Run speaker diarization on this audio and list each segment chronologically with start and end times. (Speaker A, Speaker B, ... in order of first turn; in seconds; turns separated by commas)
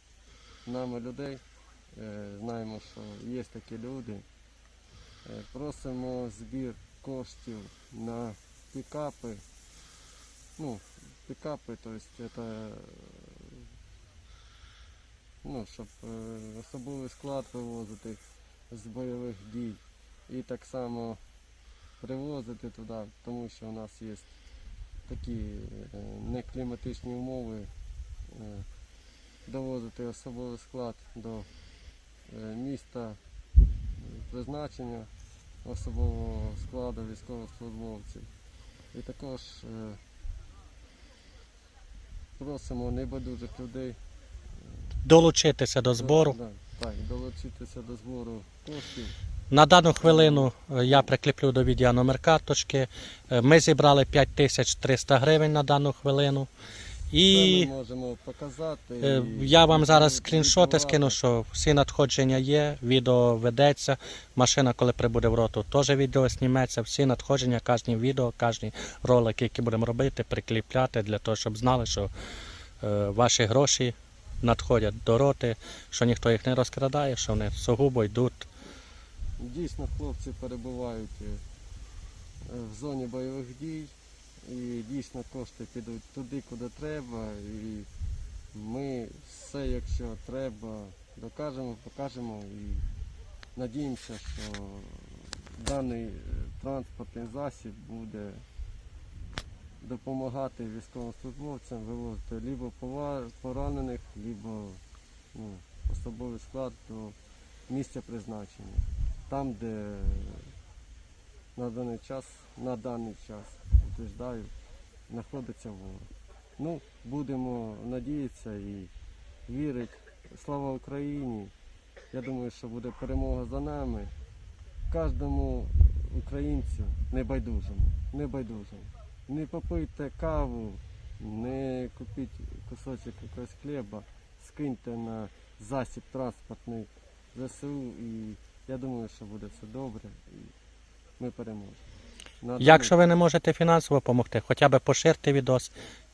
Speaker A: 0.7-1.4, Speaker A: 1.9-4.2, Speaker A: 5.2-9.4, Speaker A: 10.6-13.6, Speaker A: 15.4-21.2, Speaker A: 22.0-24.3, Speaker A: 25.1-27.7, Speaker A: 28.3-28.7, Speaker A: 29.5-31.5, Speaker A: 32.3-33.2, Speaker A: 34.0-35.1, Speaker A: 35.6-38.3, Speaker A: 38.9-40.0, Speaker A: 42.4-44.0, Speaker B: 45.0-46.4, Speaker A: 45.9-49.1, Speaker B: 49.5-56.5, Speaker A: 50.0-51.1, Speaker B: 57.1-57.7, Speaker A: 57.3-61.2, Speaker B: 59.0-72.1, Speaker B: 72.8-78.5, Speaker A: 79.4-81.4, Speaker A: 82.5-83.9, Speaker A: 84.5-87.9, Speaker A: 88.5-92.8, Speaker A: 93.5-98.5, Speaker A: 99.8-104.8, Speaker A: 105.3-107.2, Speaker A: 107.7-110.5, Speaker A: 111.6-114.5, Speaker A: 115.1-118.9, Speaker A: 119.5-121.5, Speaker A: 122.1-124.1, Speaker A: 124.9-140.5, Speaker A: 141.2-141.8, Speaker A: 142.4-142.9, Speaker B: 142.6-145.7